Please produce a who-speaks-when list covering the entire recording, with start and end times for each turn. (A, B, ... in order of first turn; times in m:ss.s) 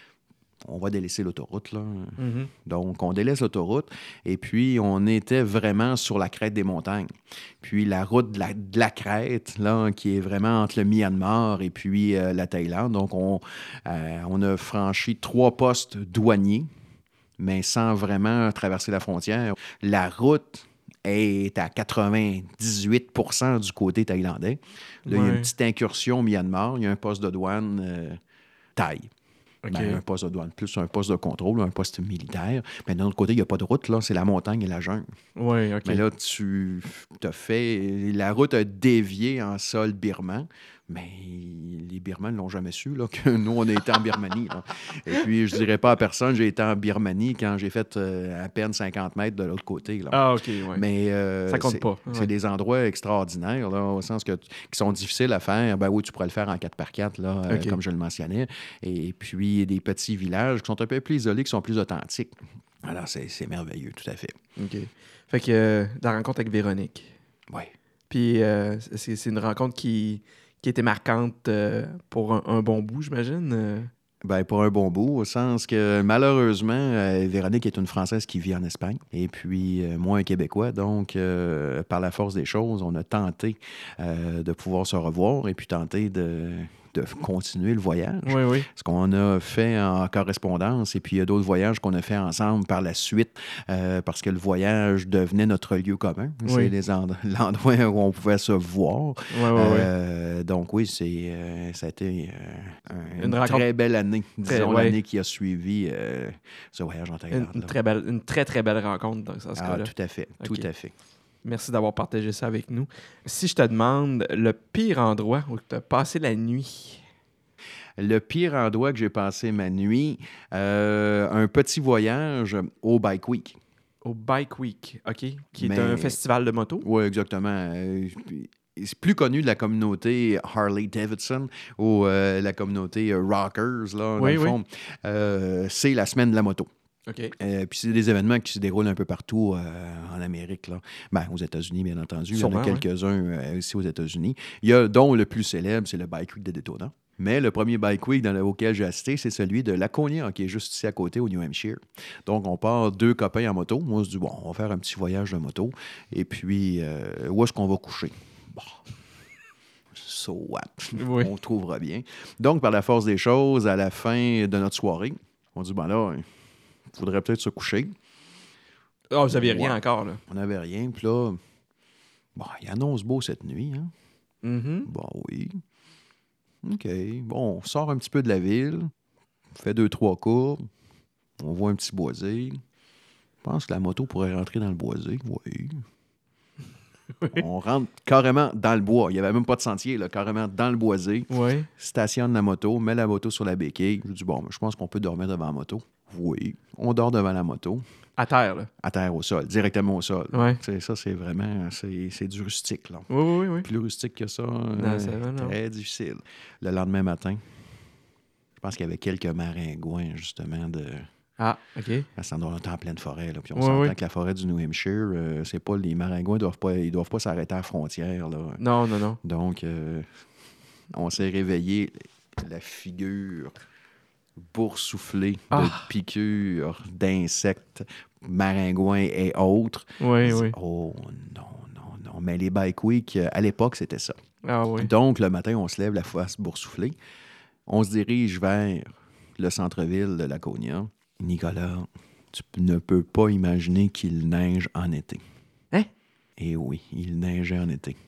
0:00.6-0:16.7 A
0:02.2-0:02.5 B
0:17.4-0:28.2 A
0:25.1-0:25.5 B
0:28.8-0:29.1 A
0:29.6-0:30.0 B
0:29.7-0:35.1 A
0:35.4-0:36.0 B
0:35.8-1:04.4 A
0:50.1-0:50.8 B
0:51.5-0:52.3 B
0:57.5-0:57.8 B
1:04.6-1:07.2 B
1:08.1-1:13.9 B
1:14.2-1:47.7 A
1:28.2-1:28.7 B
1:36.4-1:36.7 B
1:39.3-1:39.9 B
1:43.2-1:43.7 B
1:44.4-1:45.0 B
1:47.3-1:50.7 B
1:49.6-1:50.9 A
1:51.4-1:57.0 B
1:58.0-2:03.6 A
2:04.0-2:06.8 B
2:05.6-2:06.2 A
2:06.8-2:16.7 A
2:14.2-2:14.6 B
2:17.1-2:17.4 B
2:17.4-2:38.8 A
2:22.3-2:22.8 B
2:39.9-2:46.3 A
2:41.0-2:41.3 B
2:46.9-2:48.0 A
2:49.1-2:50.2 B
2:49.3-2:51.4 A
2:52.4-2:53.9 A
2:54.4-2:54.9 B
2:54.8-2:55.6 A
2:56.6-2:58.9 A
2:59.6-3:00.7 A
3:01.4-3:02.6 A
3:03.4-3:05.8 A
3:07.2-3:07.4 B
3:07.3-3:17.8 A
3:11.3-3:11.7 B
3:18.2-3:18.7 B
3:18.8-3:23.1 A
3:20.3-3:20.6 B
3:23.1-3:23.7 B
3:23.6-3:27.4 A
3:24.8-3:25.6 B
3:28.6-3:31.1 A
3:31.4-3:32.1 B
3:32.2-3:38.6 A
3:33.6-3:33.9 B
3:38.6-3:39.2 B
3:39.2-3:40.1 A
3:40.9-3:43.6 A
3:44.5-3:54.2 A
3:45.5-3:45.9 B
3:50.0-3:50.6 B
3:54.4-3:54.9 B
3:54.8-3:57.0 A
3:57.7-4:05.2 A
4:06.4-4:08.0 A